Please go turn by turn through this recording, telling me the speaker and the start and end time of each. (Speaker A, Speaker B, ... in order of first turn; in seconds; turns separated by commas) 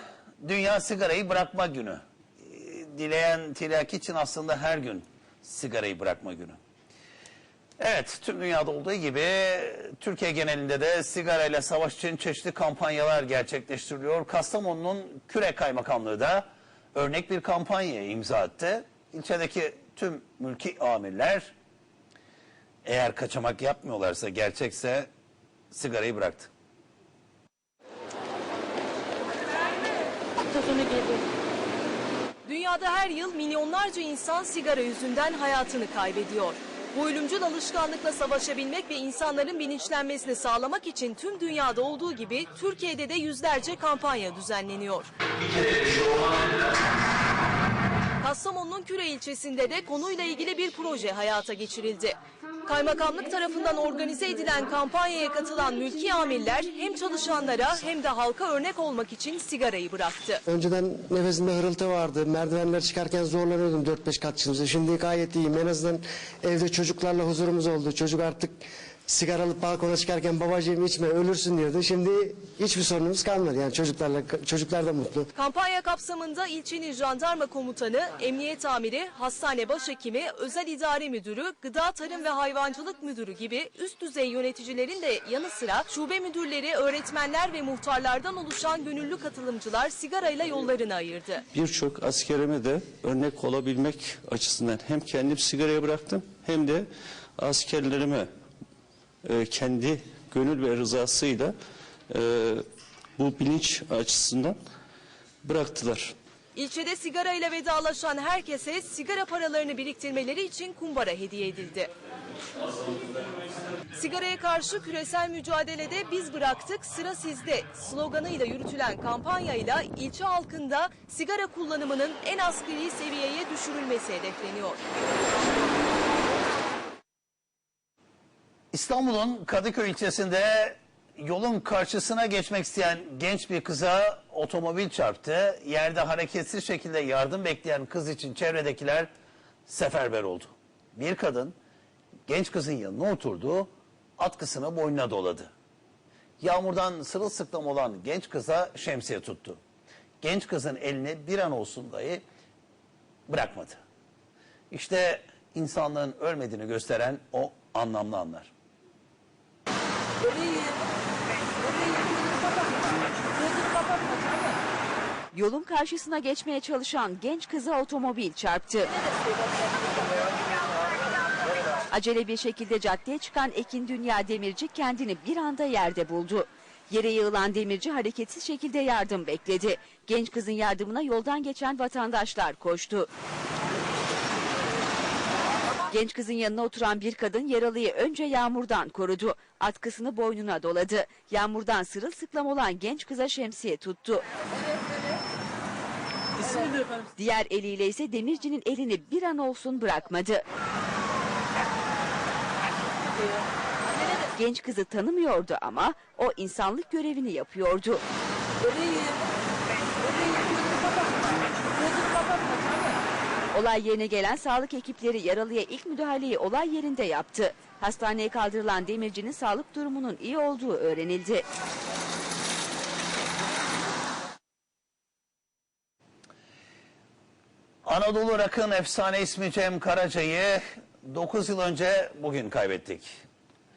Speaker A: 0.4-6.6, Speaker A: 7.8-21.5, Speaker A: 22.8-25.1, Speaker A: 25.7-26.5, Speaker B: 30.6-31.1, Speaker C: 32.5-45.1, Speaker D: 45.6-46.5, Speaker C: 48.2-60.4, Speaker E: 60.5-75.3, Speaker C: 75.3-91.4, Speaker D: 91.5-96.8, Speaker D: 97.4-98.3, Speaker D: 99.2-101.5, Speaker D: 102.1-102.6, Speaker D: 103.2-104.5, Speaker D: 105.4-106.1, Speaker C: 106.5-111.9, Speaker C: 113.9-124.8, Speaker A: 128.7-139.1, Speaker A: 139.7-141.5, Speaker A: 142.3-145.5, Speaker A: 146.4-149.6, Speaker A: 150.2-152.2, Speaker A: 153.3-153.8, Speaker A: 154.7-158.5, Speaker B: 160.2-160.8, Speaker B: 161.6-164.6, Speaker F: 165.3-168.9, Speaker F: 171.9-183.1, Speaker F: 185.9-194.2, Speaker F: 197.2-200.4, Speaker F: 204.3-208.0, Speaker B: 208.6-209.2, Speaker B: 210.0-213.0, Speaker F: 213.5-221.4, Speaker A: 227.8-233.1